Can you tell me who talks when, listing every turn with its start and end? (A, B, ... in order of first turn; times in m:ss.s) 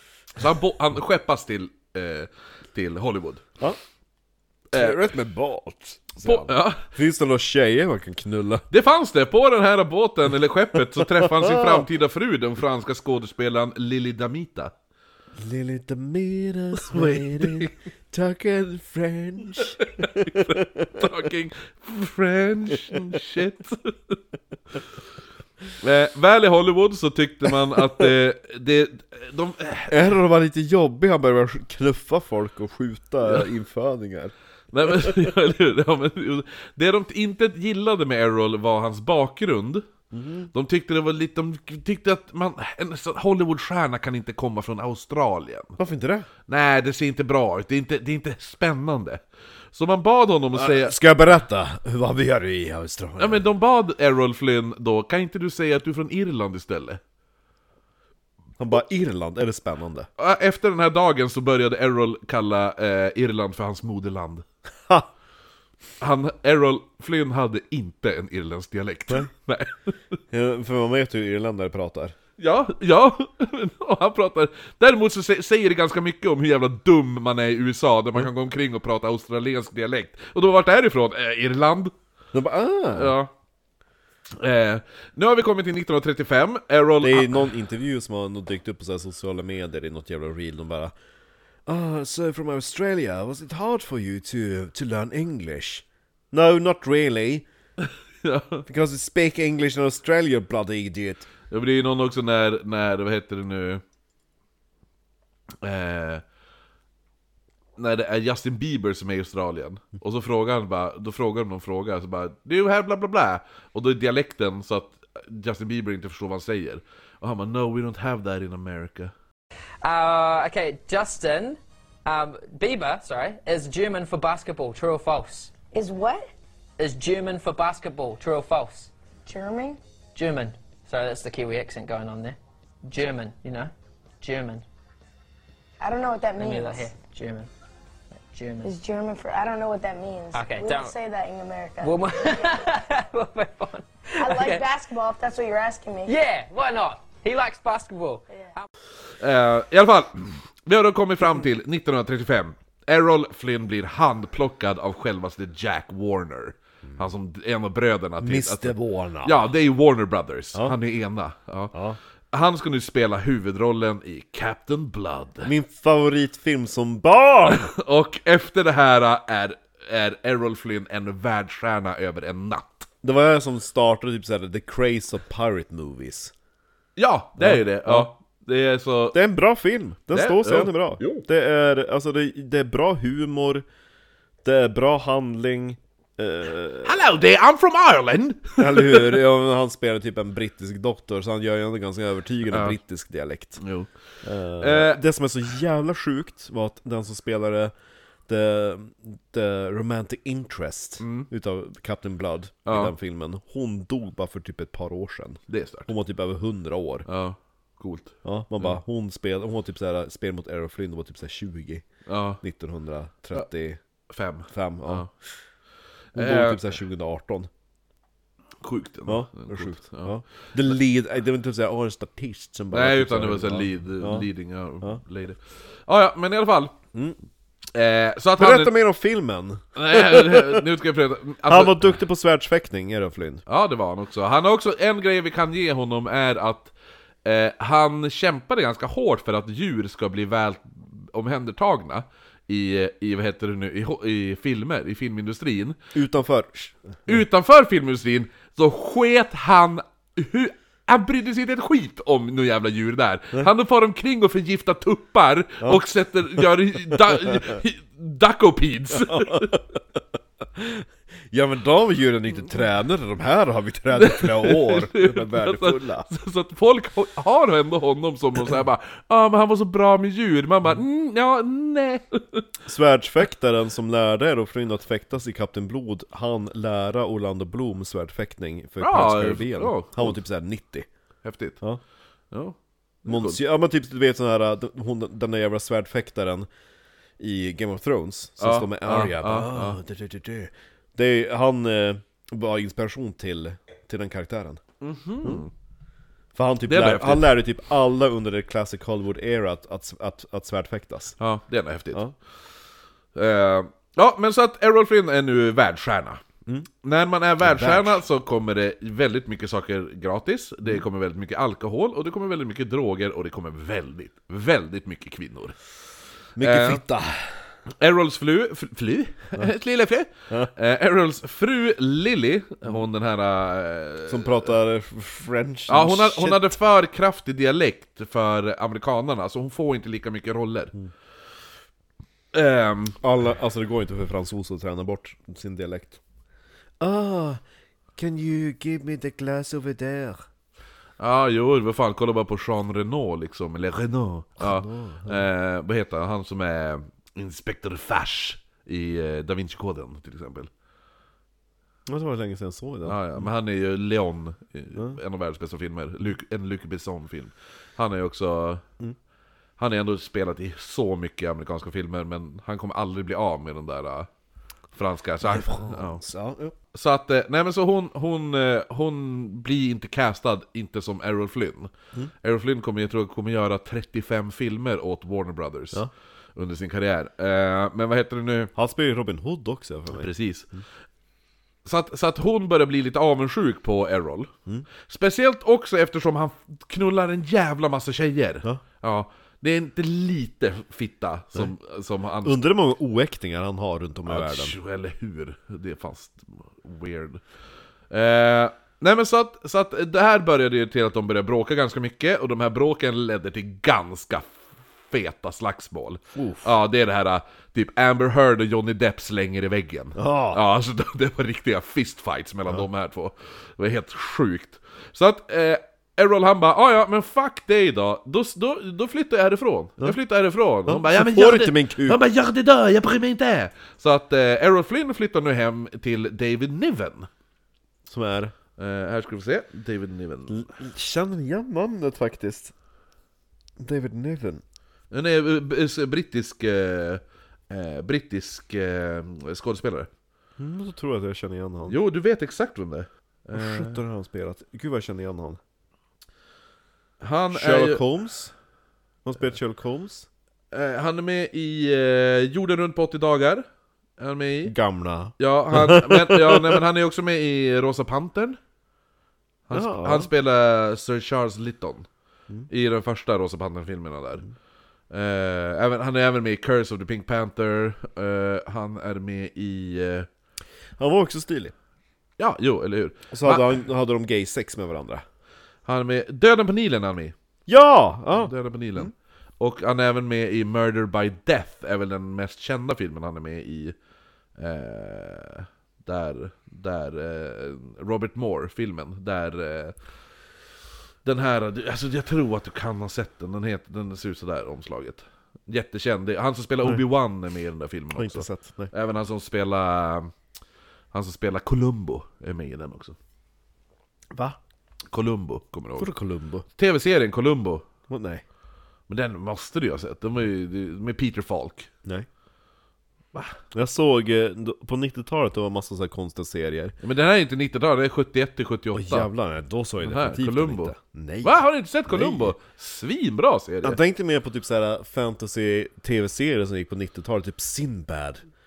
0:00.4-0:03.5 A
0:04.7-0:05.0 A
0:04.7-0:08.6 B
0:06.2-0:06.8 A
0:08.7-0:14.7 A
0:11.0-0:11.8 B
0:15.4-0:21.1 B
0:16.7-0:17.7 A
0:19.6-0:24.2 A
0:25.8-0:30.0 A
0:29.9-0:34.3 B
0:34.7-0:39.8 A
0:40.1-0:40.5 B
0:40.5-0:45.8 A
0:45.8-0:46.3 B
0:46.5-0:49.2 A
0:49.7-0:51.0 A
0:50.5-0:53.4 B
0:53.2-0:57.0 A
0:58.6-1:00.1 B
1:00.2-1:04.4 A
1:06.0-1:10.0 A
1:10.3-1:12.2 B
1:12.4-1:21.9 A
1:22.3-1:23.2 B
1:22.9-1:23.3 A
1:24.4-1:27.5 A
1:27.0-1:30.9 B
1:31.7-1:37.5 B
1:37.8-1:38.6 A
1:38.6-1:41.3 B
1:41.5-1:43.8 A
1:45.6-1:46.2 A
1:47.8-1:59.1 A
1:59.8-2:05.5 C
2:05.7-2:06.3 D
2:06.8-2:08.9 C
2:09.3-2:09.8 D
2:10.2-2:14.6 C
2:15.8-2:16.9 D
2:16.4-2:17.5 C
2:18.3-2:18.7 C
2:18.6-2:22.6 D
2:20.3-2:21.0 C
2:21.8-2:24.7 C
2:24.2-2:26.2 D
2:26.1-2:28.7 C
2:29.2-2:41.7 A
2:38.2-2:39.4 B
2:41.7-2:42.0 B
2:42.3-2:45.5 A
2:45.4-2:47.7 B
2:47.5-2:52.9 A
2:53.0-2:56.3 B
2:57.0-2:59.2 A
2:57.4-2:58.1 B
2:59.1-3:03.6 B
3:00.1-3:01.2 A
3:04.4-3:07.0 B
3:06.8-3:09.2 A
3:08.6-3:13.6 B
3:12.5-3:12.8 A
3:13.6-3:13.9 A
3:14.2-3:17.7 B
3:14.6-3:15.0 A
3:18.3-3:27.1 B
3:21.0-3:21.3 A
3:22.7-3:22.9 A
3:25.5-3:25.9 A
3:27.1-3:28.8 A
3:28.2-3:31.8 B
3:32.1-3:32.4 A
3:32.4-3:33.8 B
3:34.1-3:35.1 A
3:34.5-3:35.1 B
3:36.2-3:36.8 A
3:36.2-3:37.5 B
3:38.6-3:40.1 A
3:39.1-3:44.3 B
3:42.7-3:46.8 A
3:47.7-3:48.7 A
3:48.4-3:50.7 B
3:49.8-3:52.0 A
3:51.4-3:53.4 B
3:53.5-3:56.7 A
3:57.2-4:05.8 A
4:05.9-4:07.0 B
4:07.1-4:19.6 A
4:17.3-4:17.6 B
4:19.0-4:19.6 B
4:20.6-4:26.1 B
4:24.0-4:32.5 A
4:32.7-4:40.9 B
4:38.8-4:40.2 A
4:41.2-4:41.6 A
4:42.3-4:43.4 A
4:43.1-4:46.5 B
4:47.2-4:54.6 B
4:48.4-4:49.8 A
4:54.8-4:55.5 A
4:56.4-5:01.2 B
4:56.7-4:57.3 A
5:01.2-5:02.0 A
5:03.2-5:06.2 A
5:06.8-5:15.6 A
5:07.4-5:08.0 B
5:16.4-5:17.4 B
5:16.4-5:16.8 A
5:17.7-5:24.5 A
5:24.1-5:26.6 B
5:25.7-5:30.7 A
5:32.3-5:33.0 A
5:33.0-5:36.0 B
5:36.8-5:37.4 B
5:38.0-5:40.2 B
5:41.0-5:50.5 A
5:44.4-5:45.3 B
5:51.9-5:53.3 B
5:52.8-5:58.6 A
5:59.6-6:04.1 A
6:04.7-6:06.0 A
6:05.2-6:06.6 B
6:06.7-6:15.8 A
6:16.4-6:18.5 A
6:18.6-6:20.6 B
6:20.0-6:20.5 A
6:21.6-6:24.3 A
6:24.8-6:32.4 A
6:32.2-6:34.6 B
6:34.1-6:37.2 A
6:37.9-7:07.1 A
6:46.1-6:46.5 B
6:50.0-6:50.4 B
7:00.7-7:02.0 B
7:07.9-7:08.3 B
7:08.6-7:10.5 A
7:10.3-7:12.5 B
7:13.6-7:14.4 B
7:14.9-7:19.9 A
7:20.4-7:21.8 B
7:21.7-7:23.8 A
7:23.3-7:25.4 B
7:27.0-7:27.8 A
7:27.3-7:28.3 B
7:29.0-7:30.1 B
7:30.5-7:33.5 A
7:34.0-7:34.5 A
7:34.4-7:36.6 B
7:35.2-7:38.4 A
7:39.5-7:41.9 A
7:39.5-7:40.1 B
7:42.5-7:44.2 A
7:44.9-7:50.1 A
7:50.8-7:51.5 B
7:52.2-7:53.6 A
7:53.1-7:55.0 B
7:55.7-7:57.1 A
7:57.5-7:58.8 B
7:58.2-8:03.8 A
8:04.4-8:09.8 A
8:11.0-8:20.1 A
8:17.9-8:18.7 B
8:20.9-8:23.0 A
8:24.9-8:25.9 A
8:25.8-8:26.5 B
8:26.6-8:27.6 A
8:27.9-8:28.2 B
8:28.9-8:31.7 A
8:33.5-8:36.8 B
8:36.8-8:39.1 A
8:38.7-8:42.4 B
8:39.8-8:43.8 A
8:43.6-8:48.2 B